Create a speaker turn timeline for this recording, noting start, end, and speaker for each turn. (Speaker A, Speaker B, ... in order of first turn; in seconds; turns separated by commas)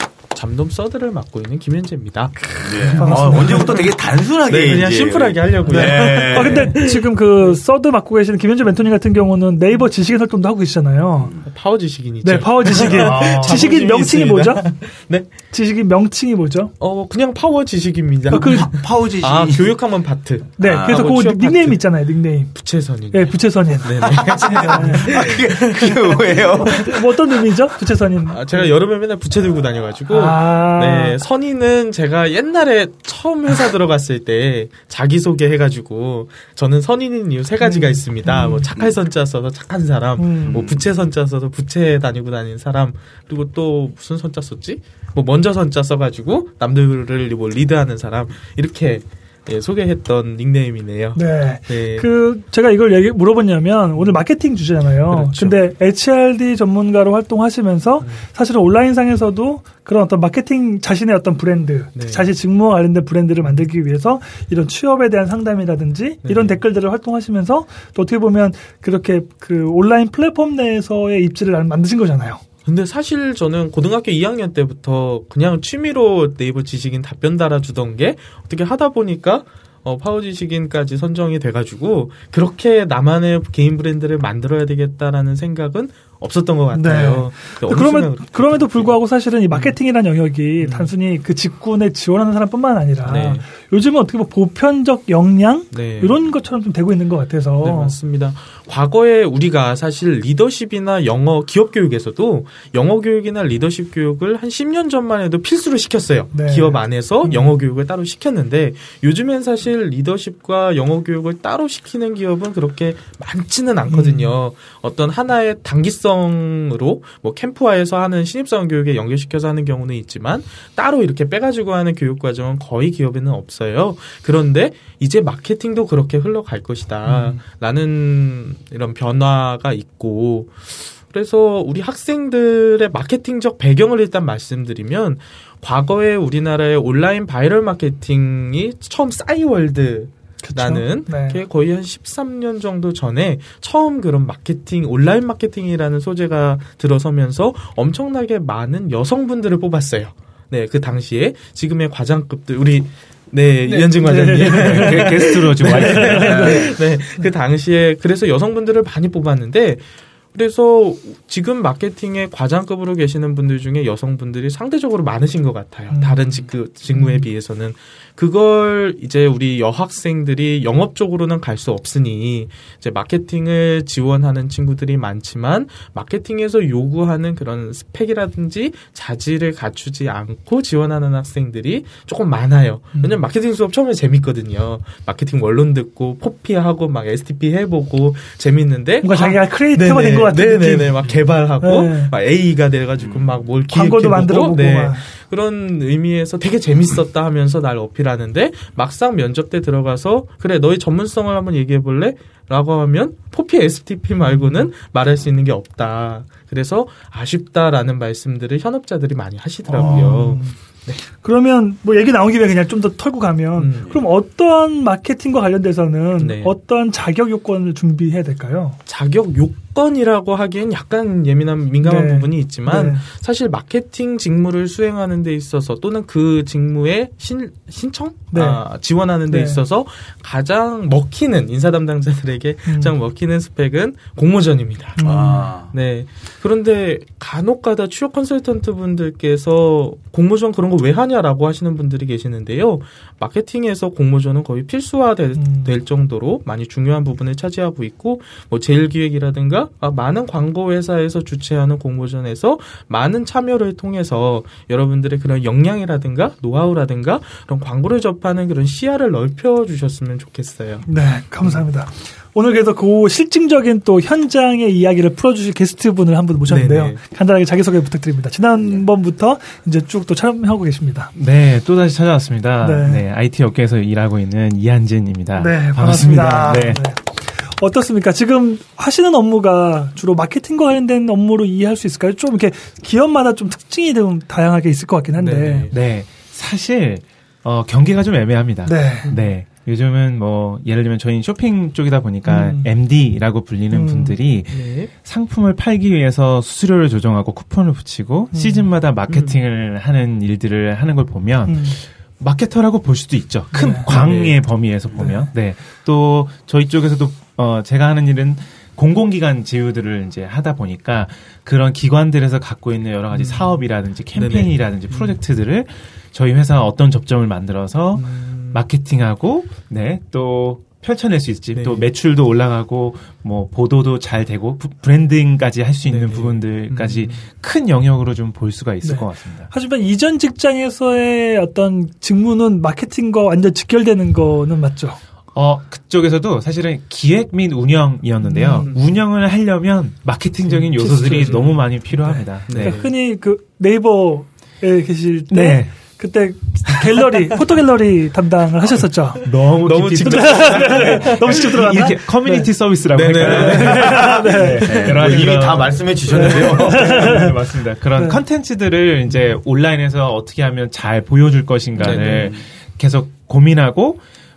Speaker A: 0.3-3.8, Speaker B: 2.4-3.9, Speaker C: 2.6-6.8, Speaker A: 4.5-7.6, Speaker B: 5.7-11.4, Speaker A: 11.5-15.3, Speaker B: 12.2-14.8, Speaker D: 12.9-13.6, Speaker B: 15.5-16.7, Speaker A: 16.8-21.9, Speaker C: 18.3-19.8, Speaker B: 18.3-18.7, Speaker C: 20.6-21.0, Speaker B: 20.6-25.3, Speaker A: 22.5-26.9, Speaker C: 24.1-27.2, Speaker B: 26.5-28.7, Speaker A: 28.3-52.1, Speaker B: 30.1-31.2, Speaker B: 37.6-38.7, Speaker B: 40.2-40.7, Speaker C: 40.5-40.9, Speaker B: 51.1-72.4, Speaker A: 54.0-54.2, Speaker A: 55.1-55.5, Speaker A: 62.0-62.3, Speaker A: 66.2-66.6, Speaker A: 72.7-89.0, Speaker B: 86.7-98.0, Speaker A: 89.5-89.8, Speaker A: 90.6-90.9, Speaker A: 93.0-93.5, Speaker A: 95.7-96.2, Speaker A: 97.6-211.0, Speaker B: 106.3-107.6, Speaker B: 113.9-114.3, Speaker B: 127.1-127.4, Speaker B: 140.4-141.4, Speaker B: 154.0-155.2, Speaker D: 154.3-156.6, Speaker B: 155.7-157.3, Speaker C: 156.2-156.8, Speaker B: 165.9-167.3, Speaker B: 182.9-183.2, Speaker B: 189.0-191.0, Speaker B: 191.6-192.1, Speaker C: 193.0-193.3, Speaker B: 193.7-195.1, Speaker B: 204.2-204.7, Speaker B: 209.7-210.6, Speaker B: 211.2-218.8, Speaker A: 213.6-214.0, Speaker A: 216.2-216.5, Speaker A: 218.9-235.0, Speaker B: 221.8-223.0, Speaker B: 228.3-228.6, Speaker B: 229.3-229.6, Speaker B: 232.7-232.9, Speaker B: 235.0-235.5, Speaker C: 235.0-235.7, Speaker A: 235.7-260.9, Speaker B: 245.4-245.8, Speaker B: 260.9-271.1, Speaker A: 266.5-267.0, Speaker D: 271.1-276.8, Speaker B: 272.6-273.0, Speaker B: 275.4-285.7, Speaker A: 285.2-285.8, Speaker D: 285.7-329.5, Speaker B: 288.6-289.1, Speaker A: 289.1-289.3, Speaker B: 292.2-292.7, Speaker B: 293.7-294.2, Speaker A: 294.5-294.9, Speaker B: 298.3-298.7, Speaker A: 299.1-299.4, Speaker B: 301.5-301.8, Speaker B: 303.5-303.9, Speaker A: 303.9-304.4, Speaker B: 305.0-305.3, Speaker A: 313.1-313.6, Speaker A: 314.1-315.2, Speaker A: 317.9-318.6, Speaker A: 321.6-321.9, Speaker A: 325.9-327.2, Speaker B: 328.8-335.0, Speaker D: 335.3-342.8, Speaker B: 338.2-338.8, Speaker A: 338.6-338.9, Speaker A: 340.5-341.7, Speaker B: 340.8-349.3, Speaker A: 342.5-342.9, Speaker D: 345.3-345.7, Speaker D: 346.7-347.0, Speaker D: 349.2-364.0, Speaker A: 349.4-351.5, Speaker B: 350.0-352.5, Speaker A: 352.9-355.5, Speaker B: 353.1-354.9, Speaker C: 354.8-357.3, Speaker B: 356.1-357.3, Speaker A: 359.1-359.3, Speaker A: 361.8-362.3